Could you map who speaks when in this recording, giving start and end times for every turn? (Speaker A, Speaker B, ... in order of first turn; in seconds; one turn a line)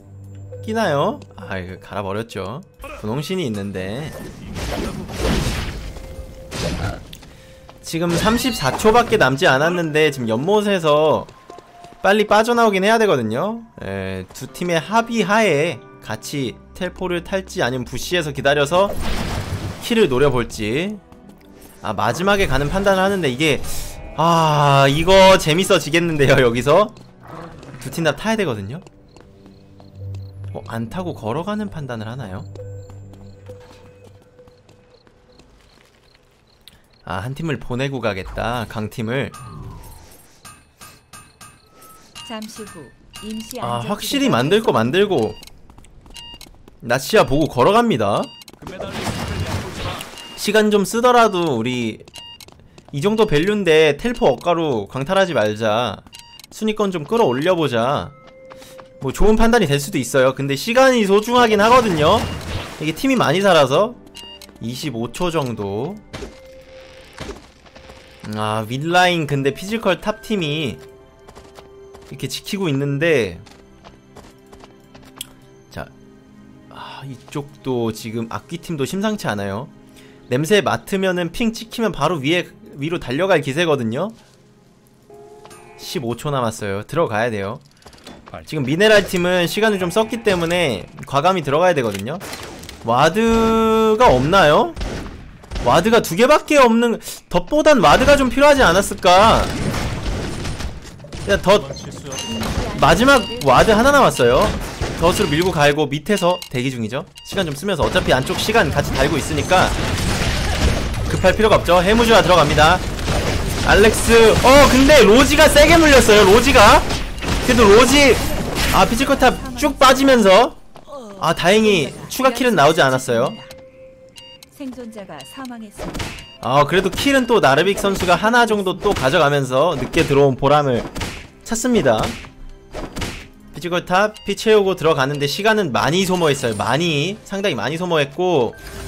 Speaker A: 0.6-4.2
Speaker B: 4.4-5.4
Speaker A: 7.8-11.3
Speaker A: 12.0-18.9
Speaker A: 19.8-21.0
Speaker A: 21.8-27.0
Speaker A: 27.8-28.8
Speaker A: 30.5-32.5
Speaker A: 37.0-39.4
Speaker C: 42.2-45.1
Speaker A: 43.6-45.4
Speaker A: 46.8-48.3
Speaker B: 48.6-50.1
Speaker A: 50.4-52.1
Speaker A: 52.9-58.1
Speaker A: 59.0-64.0
Speaker A: 64.6-66.0
Speaker A: 68.2-70.8
Speaker A: 72.1-73.4
Speaker A: 76.7-79.7
Speaker A: 80.3-84.2
Speaker A: 85.8-87.6
Speaker A: 88.5-92.2
Speaker A: 92.8-94.8
Speaker A: 95.6-99.5
Speaker A: 101.2-101.7
Speaker B: 101.5-102.3
Speaker C: 102.2-104.5
Speaker A: 102.7-109.8
Speaker C: 108.6-109.3
Speaker A: 111.1-112.9
Speaker A: 113.6-116.9
Speaker A: 117.4-120.6
Speaker C: 118.0-123.5
Speaker A: 121.2-123.4
Speaker C: 124.5-126.2
Speaker A: 126.4-130.9
Speaker C: 127.6-129.0
Speaker A: 131.4-132.2
Speaker A: 133.5-138.6